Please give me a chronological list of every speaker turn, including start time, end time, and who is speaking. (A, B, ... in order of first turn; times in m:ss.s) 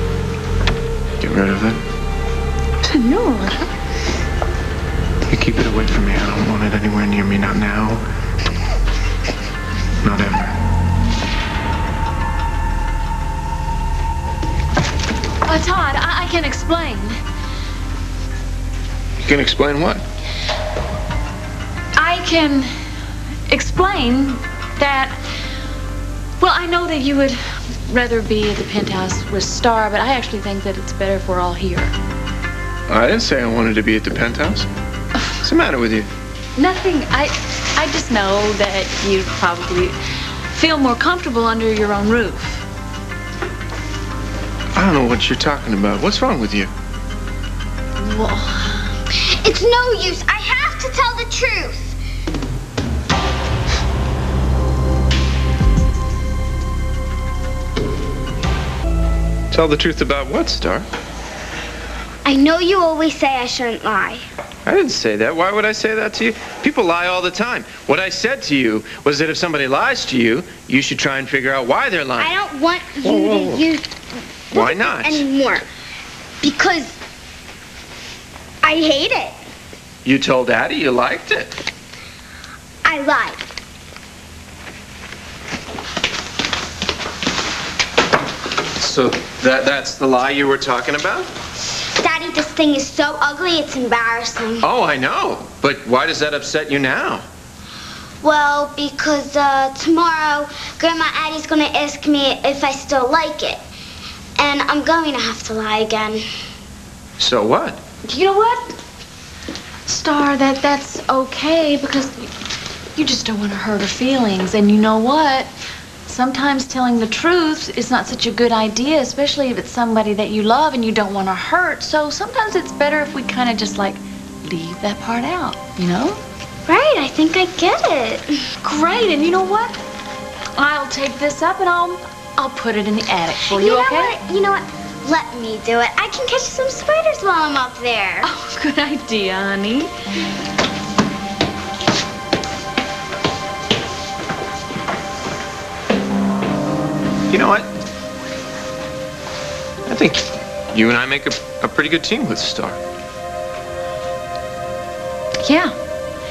0:01.2-0:01.8 A
0:02.8-0:03.7 B
0:05.3-0:08.0 A
0:10.0-0:10.6 A
0:15.4-0:17.2 B
0:19.2-0:20.0 A
0:22.0-0:22.7 B
0:23.5-0:25.2 B
0:26.4-0:31.9 B
0:32.9-0:34.7 A
0:35.4-0:36.1 A
0:36.6-0:40.0 B
0:40.5-0:42.6 B
0:44.8-0:46.7 A
0:48.0-0:48.9 B
0:49.1-0:52.0 C
0:59.5-1:00.9 A
1:02.2-1:04.3 C
1:04.7-1:12.4 A
1:12.2-1:14.0 C
1:13.0-1:13.6 A
1:14.5-1:15.6 C
1:14.5-1:15.3 A
1:16.4-1:17.0 C
1:18.6-1:19.4 C
1:20.0-1:21.6 A
1:22.8-1:23.4 C
1:28.8-1:31.3 A
1:32.0-1:34.7 C
1:34.6-1:37.2 A
1:38.2-1:43.6 C
1:44.4-1:46.2 C
1:47.2-1:47.8 A
1:48.0-1:48.8 B
1:49.9-1:52.3 B
1:53.0-1:55.5 B
1:56.1-2:06.2 B
2:06.7-2:08.4 C
2:08.6-2:09.8 B
2:10.6-2:14.2 B
2:13.5-2:18.3 C
2:18.2-2:19.9 B
2:27.3-2:27.7 A
2:29.9-2:32.8 A
2:35.4-2:35.7 B